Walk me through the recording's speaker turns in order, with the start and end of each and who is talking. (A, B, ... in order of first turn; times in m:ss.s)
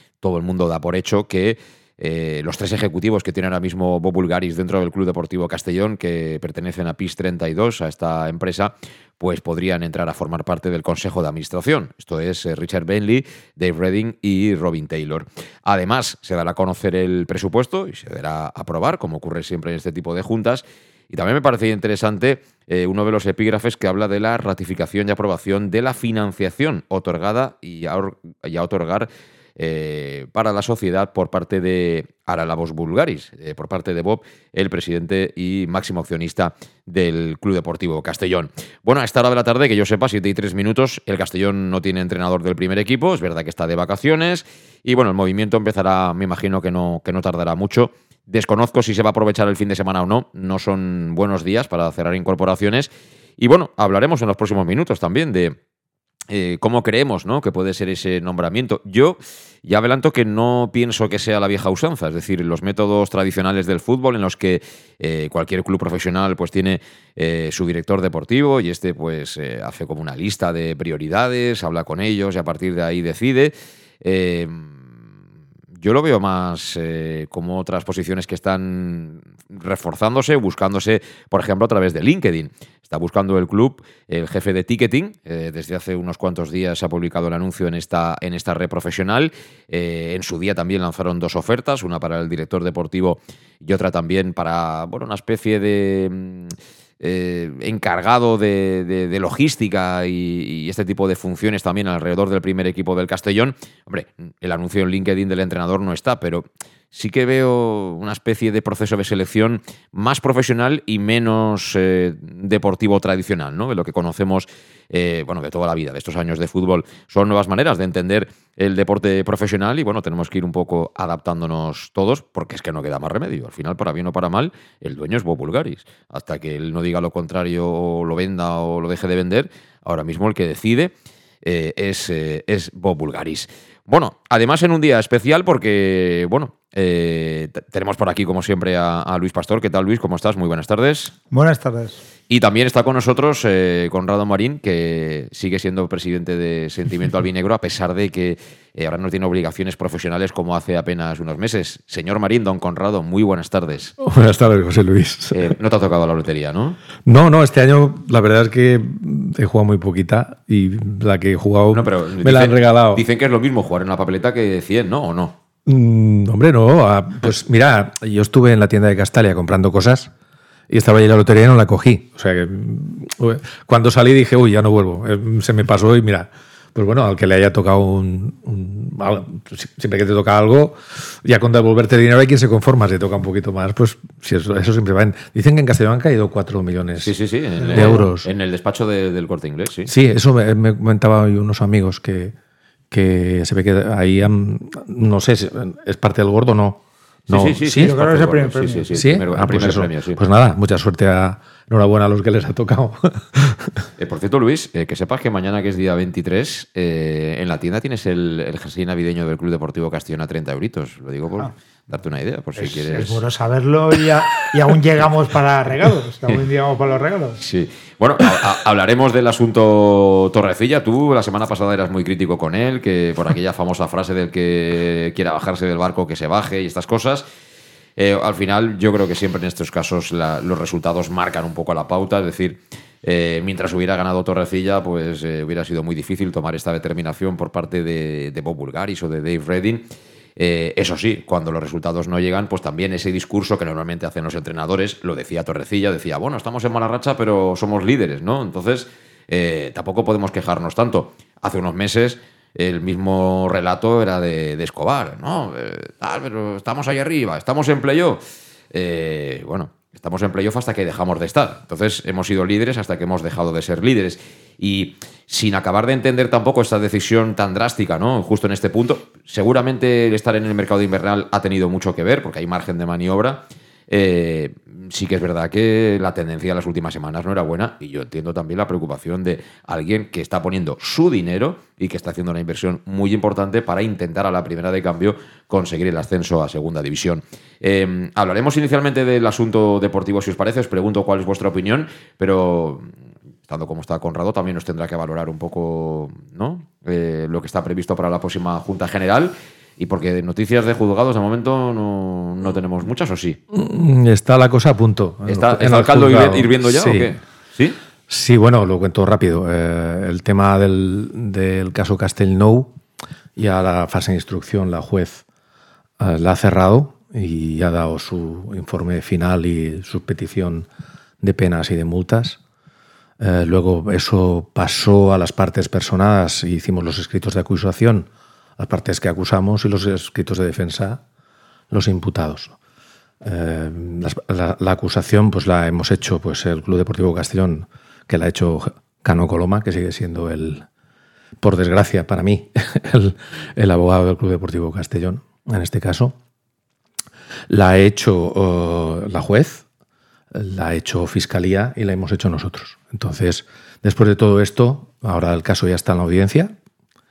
0:00.2-0:55.6 A
0:56.3-1:14.8 A
1:15.8-2:21.1 A
2:21.3-2:22.0 B
2:22.3-2:33.9 A
2:34.0-2:35.5 C
2:35.3-2:36.8 A
2:37.0-2:43.0 C
2:41.7-2:45.4 A
2:45.6-2:50.1 C
2:50.7-3:08.3 C
3:07.0-3:09.9 A
3:07.6-3:08.1 B
3:09.9-3:12.3 C
3:12.9-3:18.1 C
3:17.3-3:20.2 A
3:17.7-3:19.1 B
3:18.9-3:23.9 C
3:24.0-3:33.2 A
3:32.6-3:37.4 B
3:37.4-3:47.2 A
3:48.0-3:59.8 A
4:00.4-4:18.2 A
4:18.7-4:52.9 A
4:53.4-5:03.4 A
5:03.5-5:07.2 C
5:05.2-5:07.8 A
5:08.1-5:12.7 C
5:13.4-5:15.2 C
5:16.0-5:20.7 C
5:21.2-5:22.4 C
5:23.2-5:31.0 C
5:31.7-5:32.6 C
5:33.2-5:40.6 C
5:41.4-5:46.2 C
5:47.5-5:49.6 C
5:50.3-5:56.5 C